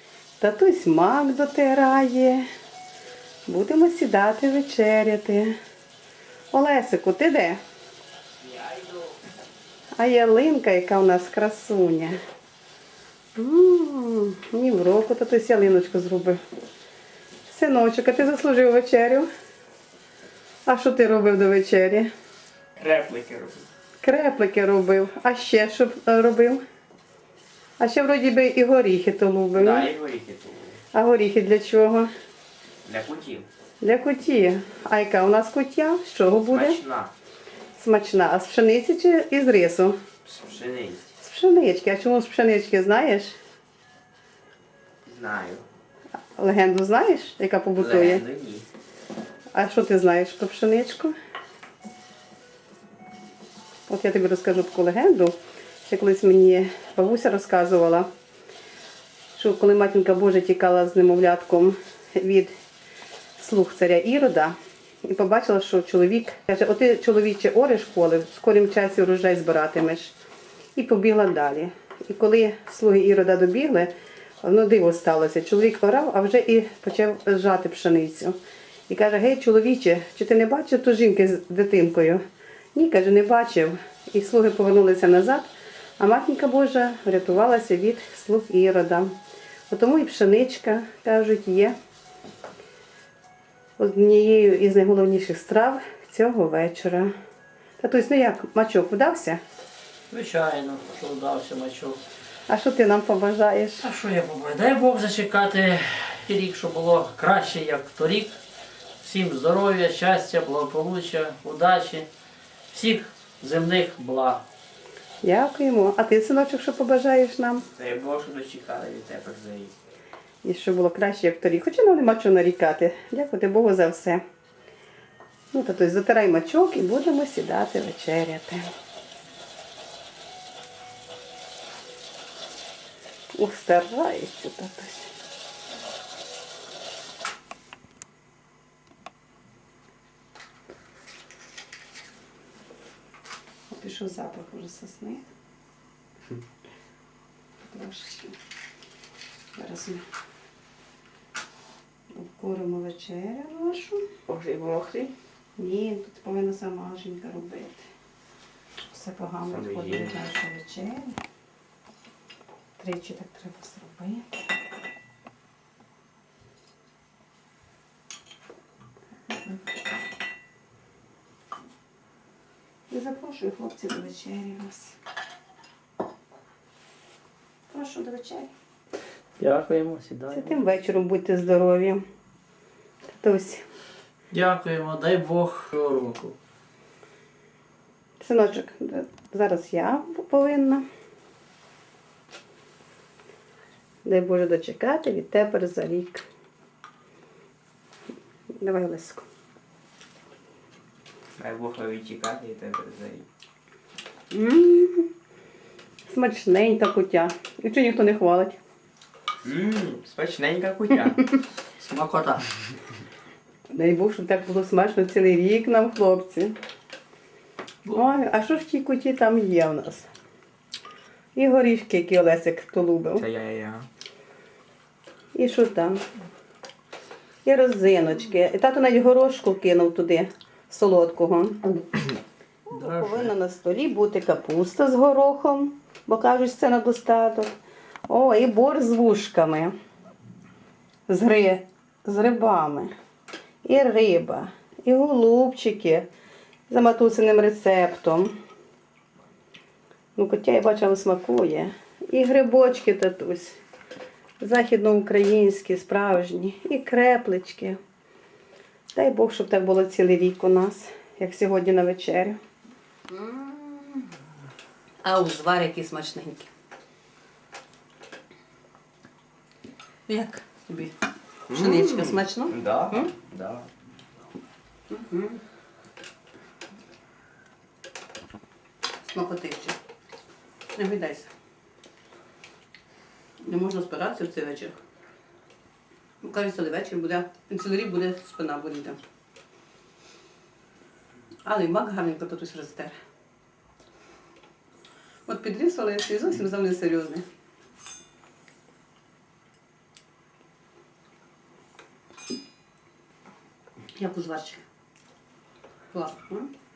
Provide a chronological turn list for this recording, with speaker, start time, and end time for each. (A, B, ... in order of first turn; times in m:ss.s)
0:00.4-0:02.5 A
0:03.5-0:05.6 A
0:06.5-0:07.6 A
0:08.4-0:09.0 B
0:10.0-0:12.2 A
0:13.4-0:16.4 A
0:17.5-0:19.3 A
0:20.6-0:22.1 A
0:22.8-0:23.7 B
0:24.0-0:26.6 A
0:27.8-0:29.9 A
0:29.5-0:30.8 B
0:30.9-0:32.1 A
0:32.8-0:33.5 B
0:33.8-0:36.8 A
0:36.5-0:37.1 B
0:37.8-0:40.0 A
0:40.2-0:41.1 B
0:41.2-0:43.4 A
0:45.0-0:45.6 B
0:46.4-0:48.2 A
0:47.8-0:48.6 B
0:49.5-0:51.1 A
0:53.9-0:58.1 A
0:59.4-1:02.5 A
1:03.4-1:10.1 A
1:10.8-1:18.4 A
1:18.9-1:22.2 A
1:22.7-1:29.2 A
1:29.7-1:31.8 A
1:33.8-1:37.1 A
1:37.8-1:39.4 A
1:40.1-1:42.0 C
1:42.5-1:43.9 A
1:43.8-1:48.4 C
1:49.0-1:52.1 C
1:52.7-1:54.4 C
1:55.2-1:57.6 A
1:57.7-1:59.7 B
2:00.4-2:04.2 A
2:05.5-2:08.7 A
2:13.3-2:15.1 A
2:23.7-2:25.3 A
2:27.6-2:28.4 A
2:29.6-2:30.0 A
2:32.1-2:34.0 A
2:34.3-2:35.1 B
2:35.6-2:37.9 A
2:38.9-2:41.2 A
2:39.5-2:40.2 B
2:42.8-2:44.3 A
2:52.9-2:55.0 A
2:57.7-2:58.5 A
2:59.4-3:00.6 C
3:00.3-3:02.0 A
3:03.1-3:03.6 A
3:04.3-3:06.3 C
3:08.2-3:10.8 A
3:14.0-3:16.2 A
3:18.6-3:19.2 A
3:21.4-3:23.2 B
3:24.3-3:25.1 A
3:26.1-3:28.6 A
3:29.4-3:31.2 B
3:31.8-3:32.4 C
3:33.7-3:36.6 A
3:37.9-3:40.1 A
3:41.3-3:43.2 A
3:43.2-3:43.9 B
3:45.3-3:46.0 A
3:47.4-3:51.8 A
3:52.7-3:57.6 A
3:52.7-3:53.3 C
3:58.1-3:59.7 A
4:01.1-4:02.9 A
4:03.6-4:06.1 A
4:06.7-4:08.3 A
4:10.2-4:13.6 A
4:14.4-4:17.8 A
4:18.9-4:22.4 A
4:23.1-4:23.8 A
4:25.0-4:26.5 A
4:30.1-4:30.9 A
4:31.5-4:33.1 A
4:31.5-4:33.7 B
4:34.9-4:35.4 A
4:39.0-4:39.8 A
4:40.8-4:41.3 A
4:43.4-4:44.7 A
4:46.2-4:49.0 A
4:51.4-4:52.9 A
4:55.3-4:57.2 A
5:04.0-5:04.6 A
5:05.9-5:06.5 A